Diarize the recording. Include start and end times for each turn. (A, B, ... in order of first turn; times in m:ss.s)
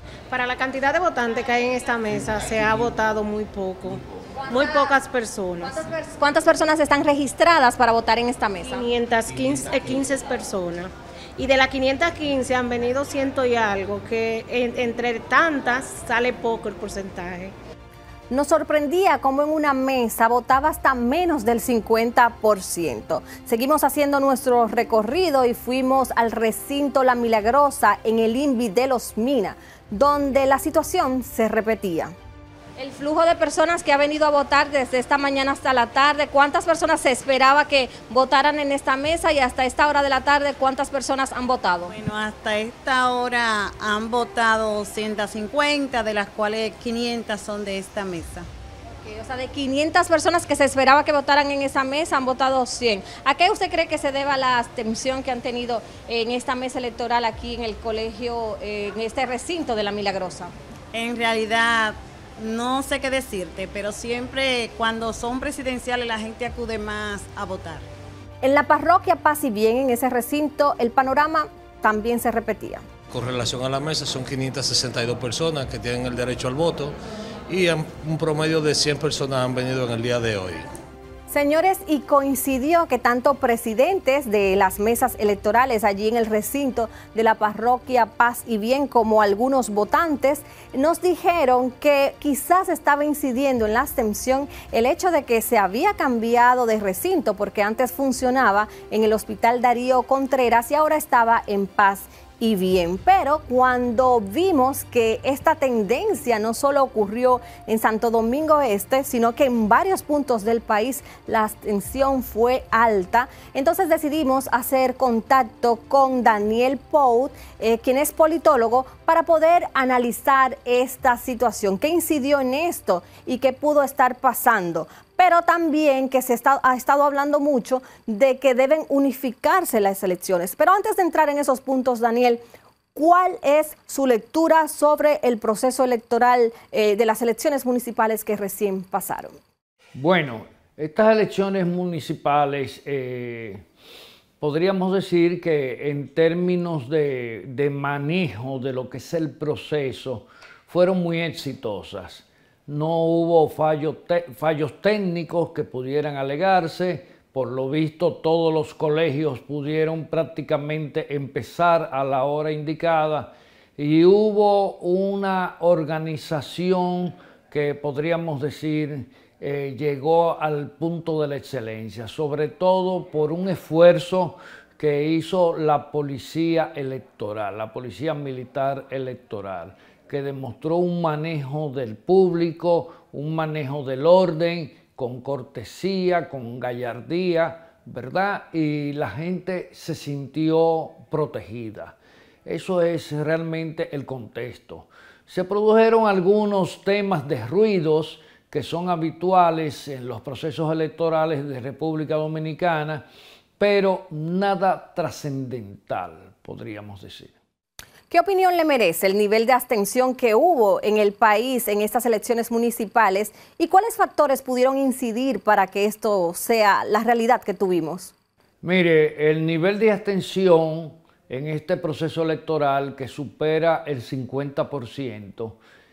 0:00.3-0:05.8 A
0:05.6-0:08.9 B
0:08.8-0:17.5 A
0:18.3-0:32.1 B
0:32.8-0:42.0 B
0:41.9-0:48.4 C
0:49.0-1:00.5 B
1:00.9-1:07.8 C
1:08.4-1:12.8 B
1:13.1-1:17.0 D
1:17.5-1:20.7 D
1:21.3-2:12.4 B
2:13.0-2:19.4 B
2:20.0-2:23.6 E
2:24.4-3:23.0 E
3:23.6-3:27.4 E
3:28.1-3:38.1 B
3:38.6-3:45.6 E